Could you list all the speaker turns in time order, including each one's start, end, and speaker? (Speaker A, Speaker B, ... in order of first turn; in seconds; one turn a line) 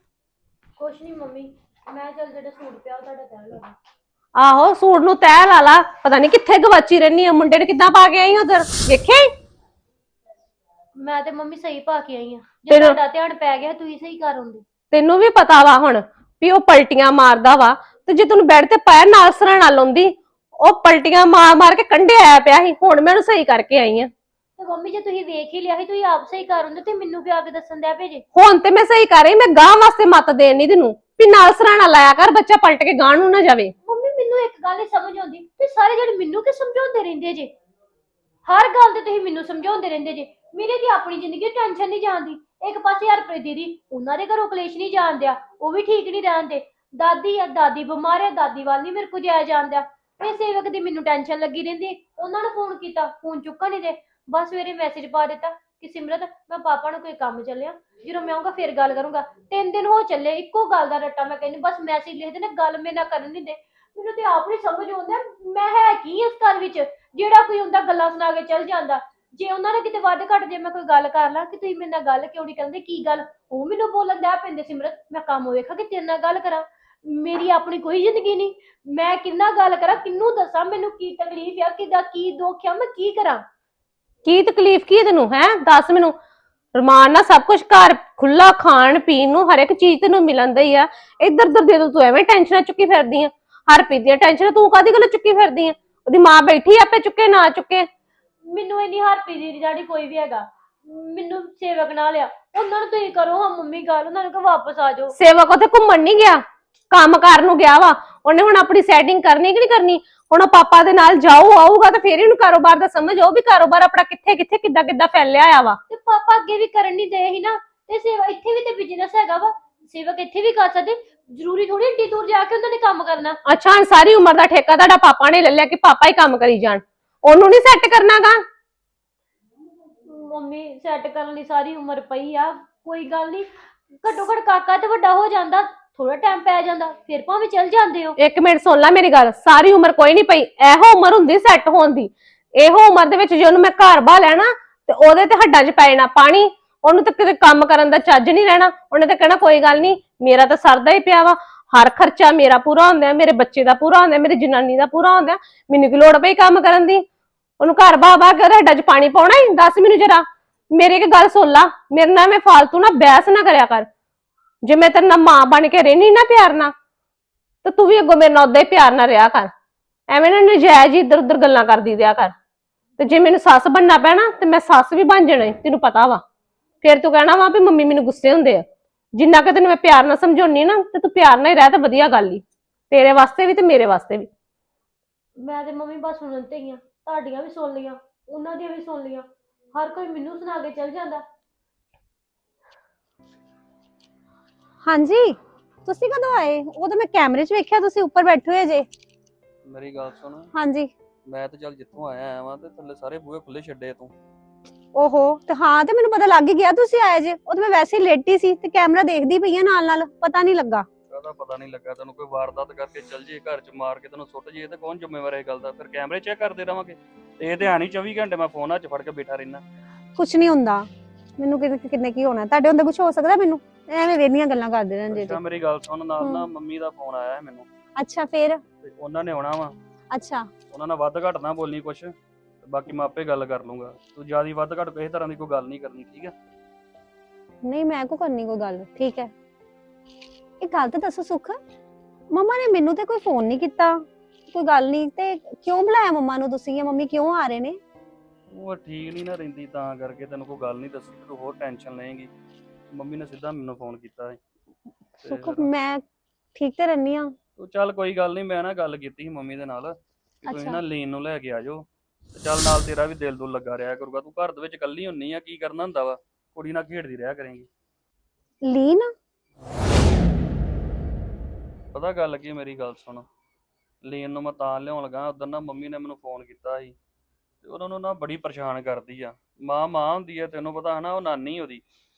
Speaker A: 0.8-3.7
Speaker B: 4.3-9.3
Speaker A: 10.9-14.7
Speaker B: 12.7-13.0
Speaker B: 14.9-24.1
Speaker A: 24.6-28.2
Speaker B: 28.3-33.7
Speaker A: 33.9-37.5
Speaker A: 38.4-83.4
Speaker B: 84.2-86.1
Speaker B: 86.7-97.9
Speaker A: 98.4-105.1
Speaker B: 105.1-115.8
Speaker A: 115.9-123.4
Speaker B: 123.4-128.4
Speaker A: 130.1-133.5
Speaker A: 134.0-138.1
Speaker B: 138.2-157.0
Speaker B: 157.6-163.9
Speaker B: 164.6-166.7
Speaker B: 167.6-169.5
Speaker B: 170.1-172.3
Speaker B: 173.0-176.2
Speaker B: 176.8-184.3
Speaker A: 185.4-191.2
Speaker C: 194.8-198.9
Speaker D: 199.6-200.5
Speaker C: 200.5-200.9
Speaker D: 201.2-204.1
Speaker C: 204.9-210.9
Speaker D: 211.1-219.6
Speaker C: 220.2-220.8
Speaker C: 221.4-225.4
Speaker D: 225.1-227.7
Speaker C: 226.2-226.5
Speaker C: 228.0-228.6
Speaker D: 228.8-229.7
Speaker C: 230.1-230.5
Speaker D: 230.7-236.3
Speaker C: 237.6-239.3
Speaker C: 240.6-241.6
Speaker C: 242.3-247.8
Speaker D: 248.5-252.3
Speaker D: 252.9-254.4
Speaker D: 255.2-255.7
Speaker C: 255.2-256.0
Speaker C: 256.5-257.3
Speaker D: 257.6-267.7
Speaker C: 260.4-260.8
Speaker C: 268.7-269.1
Speaker D: 271.9-273.3
Speaker D: 274.0-276.9
Speaker D: 277.6-281.8